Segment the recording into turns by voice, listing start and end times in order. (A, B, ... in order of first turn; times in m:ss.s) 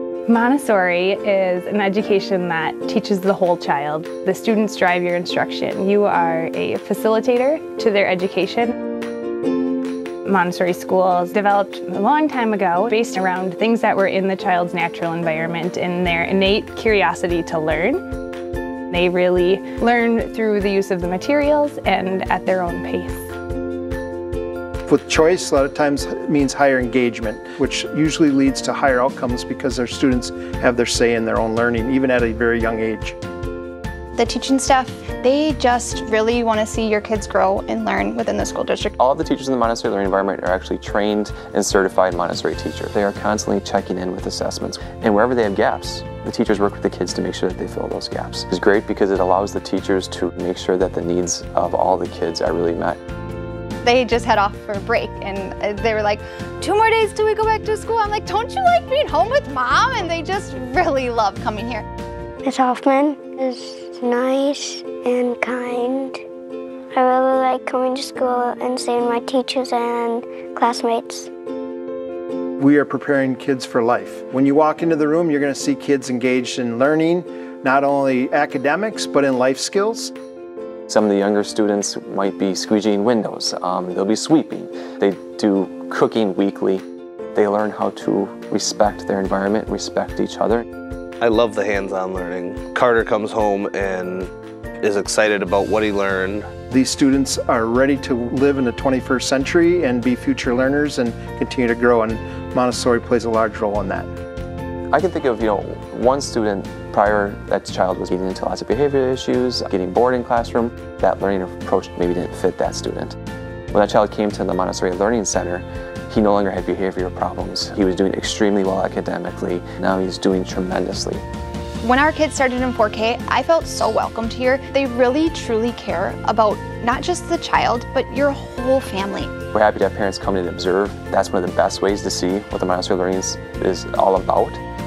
0:00.3-0:08.7 A
0:10.2-0:18.0 A
0:18.9-0:23.3 A
0:24.9-0:33.2 B
0:34.2-0:39.0 C
0:39.0-0:53.0 D
0:53.8-1:01.8 C
1:02.4-1:06.2 E
1:06.9-1:11.3 E
1:12.6-1:20.1 B
1:20.9-1:26.8 D
1:27.4-1:30.6 D
1:31.2-1:36.5 F
1:36.7-1:44.1 B
1:44.9-1:53.2 D
1:53.7-2:01.2 D
2:01.8-2:09.3 C
2:09.5-2:14.6 D